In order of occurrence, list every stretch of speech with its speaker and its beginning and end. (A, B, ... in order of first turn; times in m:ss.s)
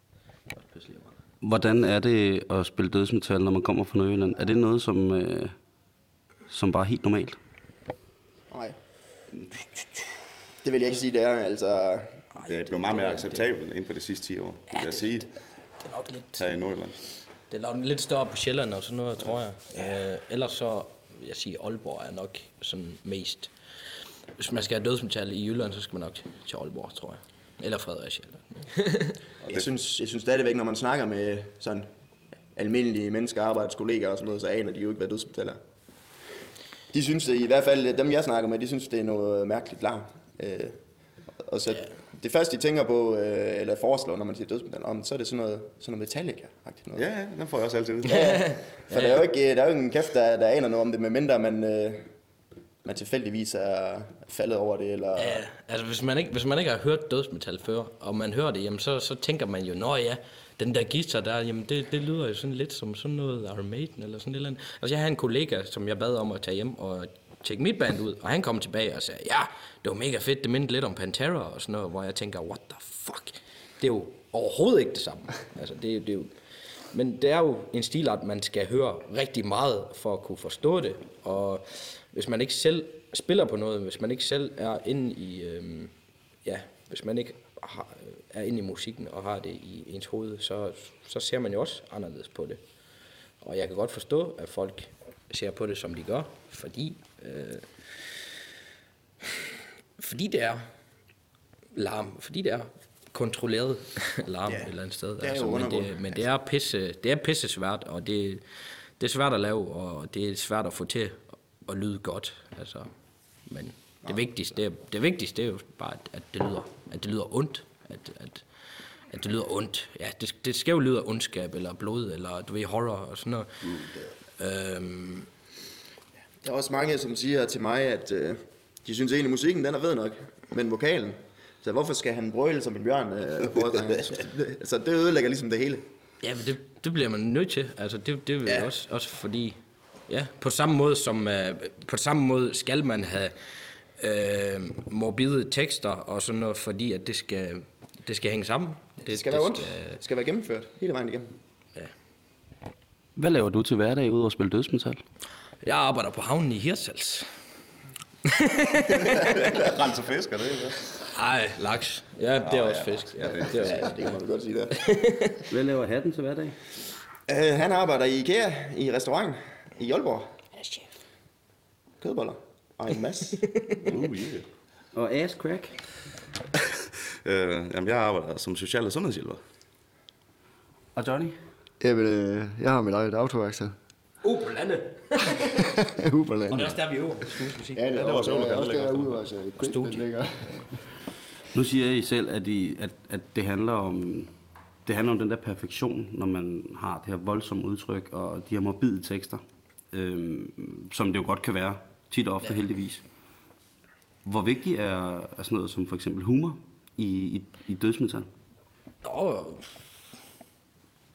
0:00.6-0:01.1 A
0:01.4-0:05.5 B
0:06.5-0:07.4 B
0:08.5-0:08.8 C
0:10.6-0:12.2 C
0:12.3-0:13.4 A
0:12.4-0:15.3 D
0:14.7-0:15.1 A
0:15.8-0:16.7 A
0:16.4-0:17.0 D
0:17.5-0:29.1 A
0:29.4-0:31.9 C
0:32.5-0:35.6 C
0:36.9-0:40.8 C
0:41.4-0:47.0 C
0:46.9-0:48.3 D
0:48.1-0:52.1 C
0:48.9-0:49.2 A
0:52.8-0:55.4 C
0:55.2-1:38.1 A
1:40.0-1:40.7 A
1:41.7-2:05.3 A
1:45.2-1:46.2 C
2:06.4-2:15.8 C
2:16.2-2:30.0 A
2:29.0-2:31.3 C
2:33.2-2:35.0 B
2:35.6-2:37.4 A
2:38.2-2:39.5 A
2:39.0-2:41.1 D
2:41.1-2:44.0 A
2:42.4-2:44.1 D
2:43.5-2:44.8 C
2:44.8-2:45.4 A
2:45.5-2:46.6 B
2:47.3-2:50.3 C
2:50.6-2:50.9 A
2:52.0-2:53.4 C
2:53.5-2:53.9 A
2:53.8-2:54.4 D
2:54.9-2:55.8 B
2:57.2-2:59.4 D
3:00.9-3:01.4 B
3:01.8-3:03.7 E
3:04.2-3:05.8 A
3:05.8-3:06.8 E
3:06.5-3:07.9 A
3:07.7-3:10.8 E
3:07.9-3:09.3 D
3:09.6-3:10.6 A
3:11.5-3:14.3 B
3:14.8-3:23.0 B
3:24.2-3:28.3 B
3:29.0-3:29.8 A